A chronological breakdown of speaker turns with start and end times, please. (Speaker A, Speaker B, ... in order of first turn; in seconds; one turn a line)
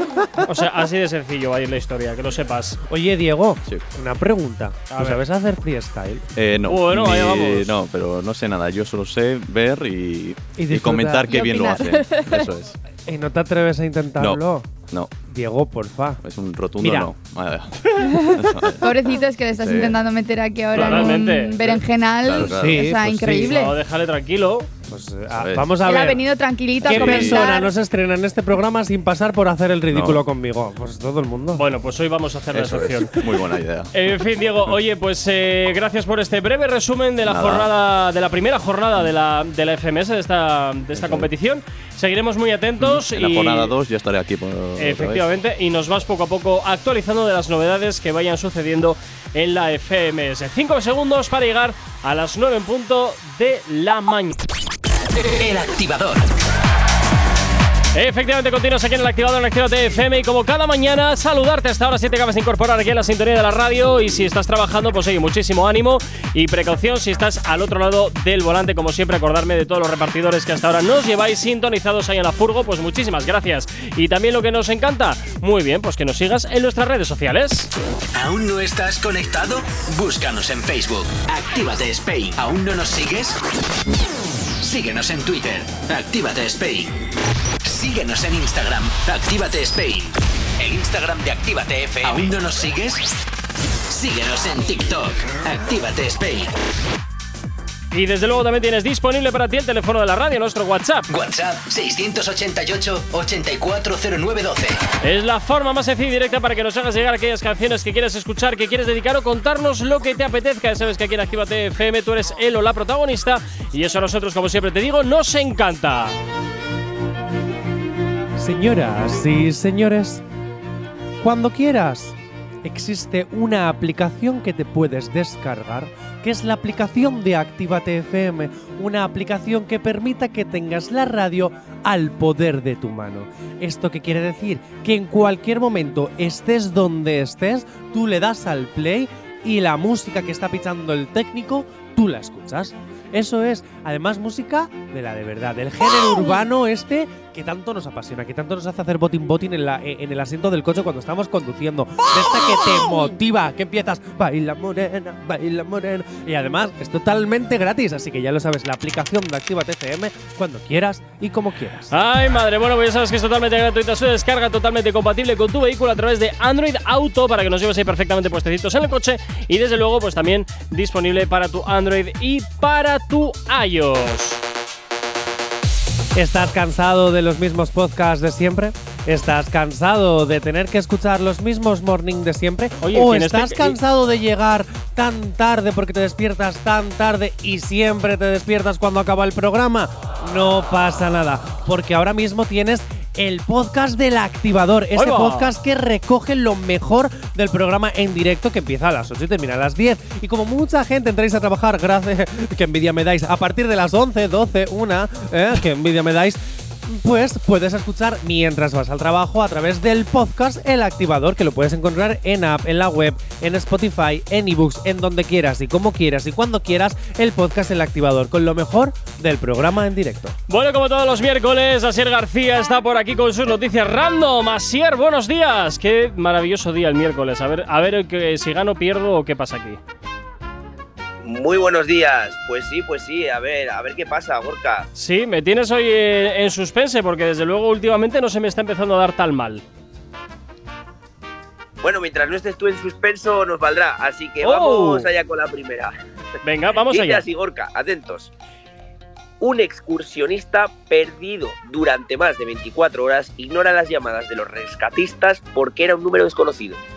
Speaker A: 0.4-2.8
Speaker B: 2.9-6.2
Speaker A: 4.9-5.2
Speaker C: 6.4-12.8
Speaker A: 6.7-7.8
Speaker B: 10.6-11.6
Speaker D: 11.3-12.5
Speaker B: 13.0-14.7
Speaker C: 14.2-15.1
Speaker B: 15.3-16.2
Speaker C: 16.2-20.0
Speaker B: 16.8-17.1
Speaker D: 18.0-23.8
Speaker C: 20.8-21.1
Speaker A: 20.8-21.8
Speaker C: 22.2-23.5
Speaker B: 22.4-23.5
Speaker A: 23.4-24.7
Speaker B: 24.9-26.2
Speaker C: 25.3-25.8
Speaker D: 25.8-27.7
Speaker B: 26.8-31.6
Speaker C: 26.9-27.5
Speaker C: 29.9-30.2
Speaker A: 31.5-43.7
Speaker C: 32.5-33.9
Speaker C: 37.2-37.7
Speaker C: 40.9-41.3
Speaker C: 42.8-45.2
Speaker A: 44.8-54.4
Speaker E: 55.2-56.3
Speaker A: 57.9-77.7
Speaker E: 78.1-83.4
Speaker E: 84.6-87.0
Speaker E: 87.6-93.0
Speaker E: 93.9-96.5
Speaker A: 97.9-101.1
Speaker E: 101.1-104.8
Speaker A: 105.0-116.2
Speaker B: 118.4-120.2
Speaker B: 121.2-161.9
Speaker A: 161.9-174.4
Speaker B: 176.2-220.3
Speaker A: 182.8-183.8
Speaker A: 194.9-195.5
Speaker A: 220.5-229.8
Speaker F: 231.2-234.9
Speaker A: 235.0-239.6
Speaker F: 241.8-245.9
Speaker A: 244.4-245.1
Speaker A: 246.4-247.2
Speaker F: 246.9-248.3
Speaker F: 249.4-256.8